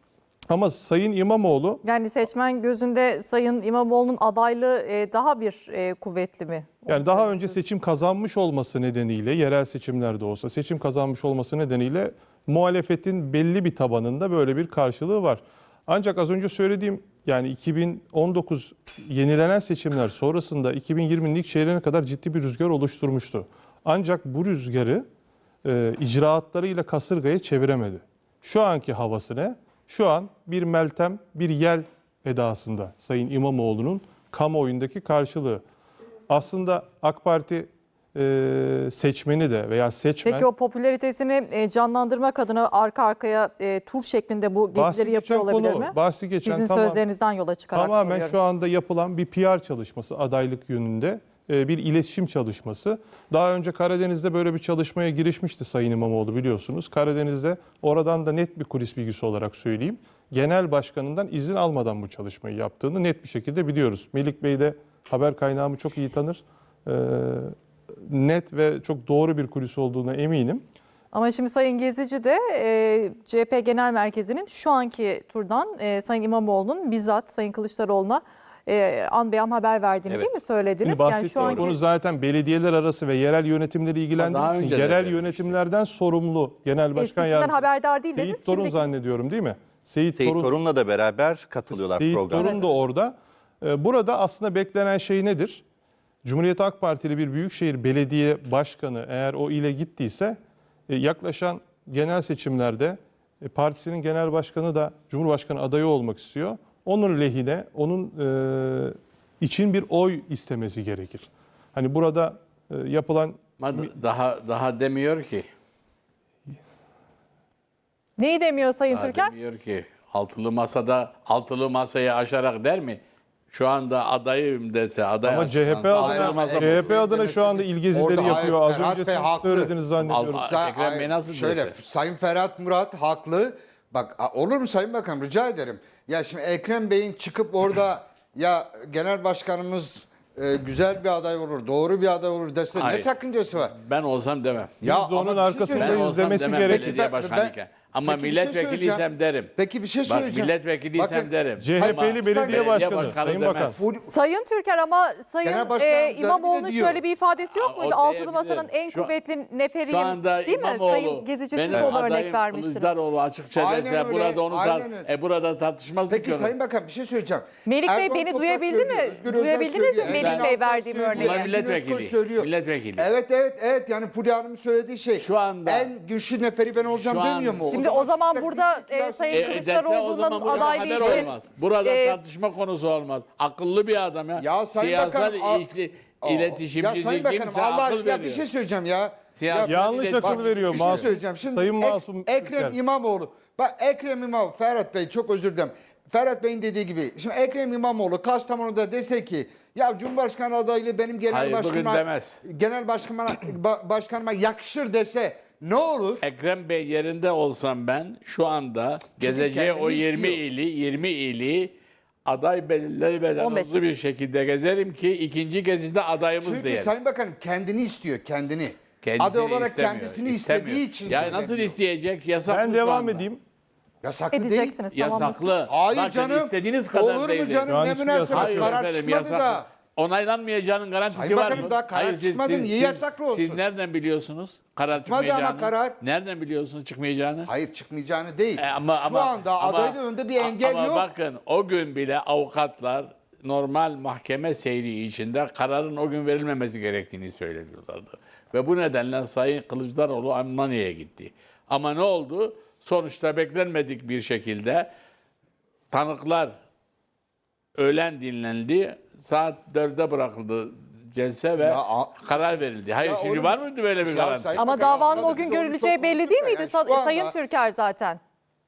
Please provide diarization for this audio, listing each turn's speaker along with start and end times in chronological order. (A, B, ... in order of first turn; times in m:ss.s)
0:00.5-0:01.8 A
0:01.8-0:07.5 B
0:06.9-0:25.0 A
0:25.6-0:35.6 A
0:36.3-0:40.5 A
0:40.2-0:48.3 B
0:44.7-0:47.0 A
0:47.7-1:10.6 A
1:11.1-1:21.8 B
1:20.8-1:30.5 A
1:24.2-1:25.5 C
1:26.9-1:28.9 B
1:30.2-1:32.6 D
1:31.7-1:35.6 A
1:32.3-1:32.6 B
1:36.2-1:40.4 A
1:40.9-1:53.9 A
1:53.6-1:55.5 C
1:58.2-1:59.3 B
1:58.9-2:03.0 C
2:03.5-2:07.0 C
2:05.2-2:10.5 A
2:05.9-2:09.7 E
2:10.0-2:11.8 C
2:10.4-2:23.8 E
2:22.7-2:24.8 C
2:24.8-2:27.0 A
2:24.8-2:33.2 E
2:25.7-2:29.5 C
2:30.0-2:33.8 C
2:31.6-2:33.8 A
2:33.7-2:34.1 E
2:34.0-2:42.9 B
2:35.4-2:37.0 E
2:37.5-2:39.1 C
2:39.9-2:46.5 C
2:43.6-2:45.1 E
2:46.1-2:59.7 E
2:47.6-2:51.5 B
2:50.0-2:50.5 C
2:51.1-2:53.1 C
2:55.2-2:55.9 C
2:56.9-2:57.8 C
2:57.6-3:02.2 B
2:59.3-3:08.4 C
3:00.4-3:01.3 E
3:04.4-3:05.7 E
3:06.2-3:26.2 E
3:09.3-3:11.1 C
3:09.6-3:12.8 A
3:21.3-3:22.4 C
3:26.2-3:31.7 C
3:29.2-3:30.4 E
3:32.2-3:36.9 C
3:33.4-3:33.8 B
3:36.4-3:41.8 E
3:39.0-3:43.2 C
3:42.5-3:43.4 A
3:44.0-3:44.8 E
3:44.3-3:45.5 B
3:44.9-3:47.7 C
3:45.6-3:49.7 E
3:47.7-3:48.8 A
3:48.3-3:57.5 C
3:51.1-3:53.6 E
3:54.9-3:56.0 E
3:57.4-4:01.1 E
3:58.6-4:14.9 C
4:15.9-4:16.5 C
4:17.8-4:25.5 C
4:21.6-4:27.3 E
4:24.6-4:28.2 B